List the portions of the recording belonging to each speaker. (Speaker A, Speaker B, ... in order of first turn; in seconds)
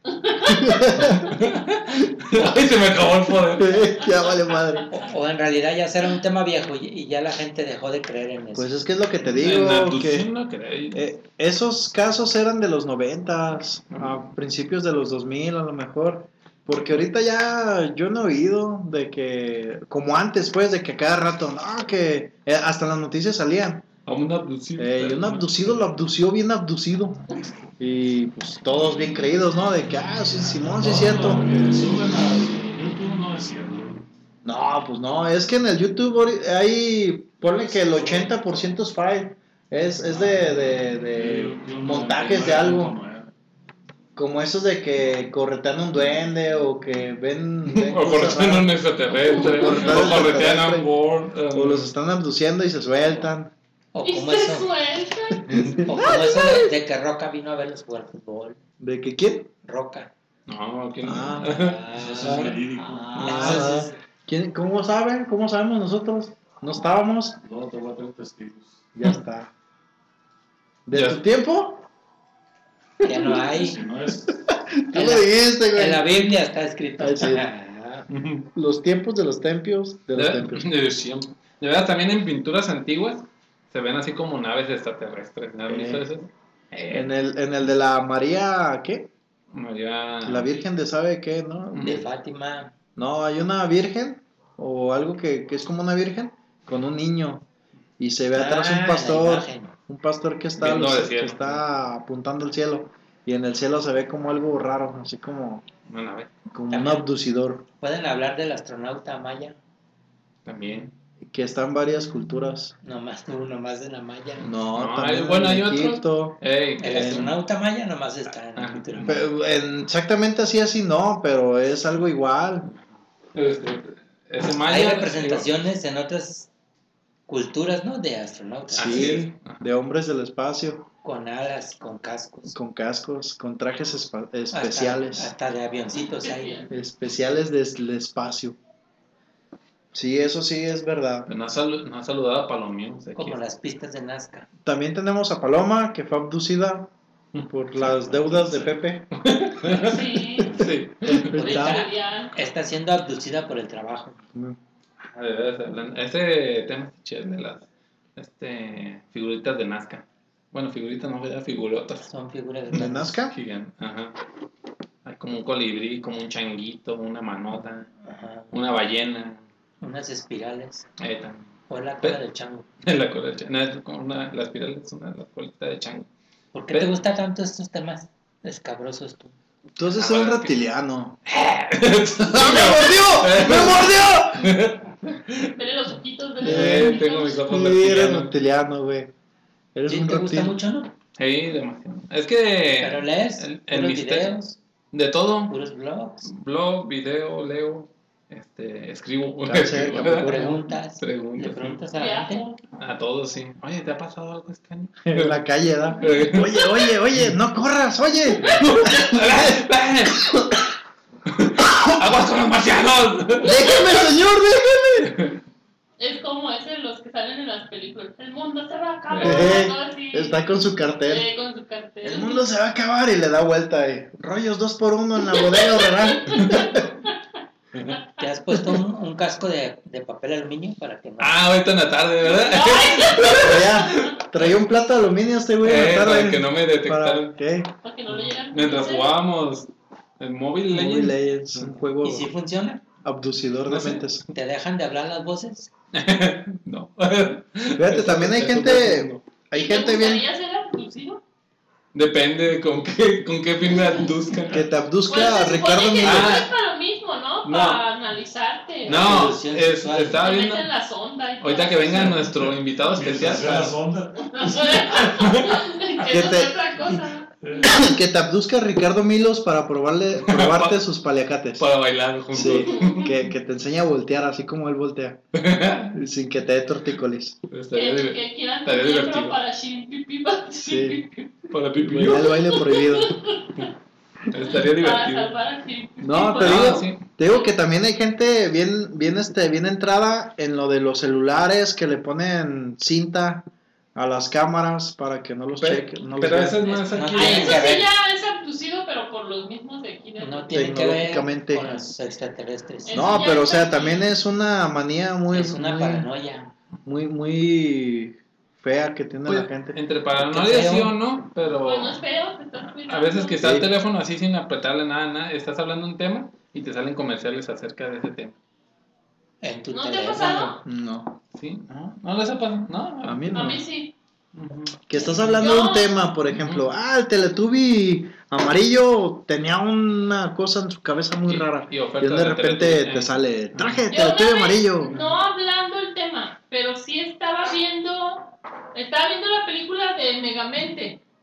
Speaker A: 0.1-0.8, 49.3-50.3, 54.0-56.6, 136.0-136.7, 149.9-150.6, 151.4-152.3, 185.6-187.4, 201.9-202.6, 216.0-220.4, 221.1-222.4, 225.4-226.8, 232.2-234.0, 237.8-239.1, 249.5-251.2, 255.1-259.2, 260.1-262.2, 264.3-267.6, 272.7-273.1, 277.7-281.3, 282.3-283.6, 284.6-286.9, 296.7-300.7, 302.9-304.1, 311.6-313.4, 319.7-320.6, 323.3-323.9, 325.4-325.9, 333.9-341.0
Speaker B: 0.4-1.3, 3.5-4.9, 8.6-10.3, 10.9-23.9, 24.8-27.2, 27.8-31.5, 34.5-43.0, 44.1-48.7, 49.2-50.9, 51.5-53.5, 55.5-55.8, 58.8-59.5, 61.0-61.6, 62.9-67.4, 69.0-69.5, 70.9-71.9, 74.7-76.1, 77.0-77.5, 78.5-80.7, 85.7-86.0, 86.9-89.1, 90.2-92.1, 93.0-97.4, 98.0-105.7, 106.5-107.7, 111.2-112.7, 114.4-117.3, 119.0-122.7, 128.8-130.9, 132.5-135.3, 136.7-138.6, 139.9-141.3, 144.7-146.9, 147.5-149.1, 149.7-151.8, 162.7-163.4, 179.8-181.2, 182.2-184.6, 186.4-189.1, 189.7-190.6, 199.4-200.7, 205.1-209.6, 210.1-210.6, 211.6-212.1, 213.4-215.1, 219.2-221.3, 222.0-226.8, 233.2-237.7, 240.7-242.3, 243.0-244.2, 247.8-250.2, 254.5-256.4, 266.1-266.5, 267.6-271.6, 272.3-275.2, 275.9-277.4, 280.6-281.0, 281.8-283.2, 286.0-296.6, 300.5-301.8, 302.9-306.1, 306.9-309.8, 313.4-313.7, 320.6-321.2, 323.0-323.6, 324.9-334.9
Speaker C: 1.1-3.8, 9.4-11.0, 13.9-14.2, 24.1-25.9, 47.7-51.9, 60.5-62.5, 63.3-63.6, 70.9-71.2, 78.1-78.5, 80.2-87.1, 89.5-90.6, 91.8-92.0, 100.6-101.6, 105.9-106.3, 110.5-110.9, 114.8-117.3, 118.6-119.1, 123.3-125.5, 128.7-129.6, 141.3-143.4, 149.1-150.1, 150.6-151.4, 155.0-157.7, 158.2-162.1, 163.3-164.2, 165.1-167.9, 168.5-169.4, 171.0-172.2, 172.8-176.1, 179.8-180.5, 181.3-185.5, 186.4-188.3, 191.2-194.3, 194.9-195.5, 196.3-200.4, 201.0-201.8, 202.8-205.4, 206.0-206.6, 208.5-210.3, 211.3-213.9, 215.1-215.4, 219.1-219.6, 231.2-234.4, 235.6-237.3, 238.1-241.7, 243.7-244.1, 245.9-249.2, 251.9-254.6, 256.0-256.5, 257.4-257.8, 258.9-260.7, 261.4-263.7, 265.2-265.5, 270.2-270.8, 271.6-273.1, 275.4-276.0, 277.5-279.4, 281.5-282.3, 284.3-285.3, 286.4-287.0, 295.6-297.7, 309.3-312.0, 312.7-318.4, 321.3-323.6, 324.3-324.8, 326.3-326.6, 331.3-333.8
Speaker D: 4.9-8.7, 53.9-54.7, 55.7-58.6, 59.6-60.1, 61.4-63.9, 73.0-73.8, 74.9-78.0, 91.8-92.8, 98.3-99.7, 106.7-107.1, 107.8-109.6, 112.8-114.5, 116.8-119.1, 124.7-126.5, 127.3-129.2, 131.0-132.6, 134.5-136.7, 143.2-144.5, 151.3-154.2, 162.1-163.2, 168.1-168.5, 169.8-170.9, 171.7-172.7, 176.5-179.3, 189.9-190.9, 192.8-194.6, 195.5-196.3, 200.2-202.4, 228.2-231.4, 242.0-242.8, 244.3-245.7, 258.9-260.2, 296.9-297.9, 300.2-303.0, 305.3-306.5, 310.3-310.9, 319.4-320.6, 325.0-325.4
Speaker E: 30.4-34.0, 37.6-38.3, 40.0-43.3, 61.9-63.6, 67.4-68.8, 73.1-74.4, 147.8-148.7, 262.0-265.4, 267.4-267.7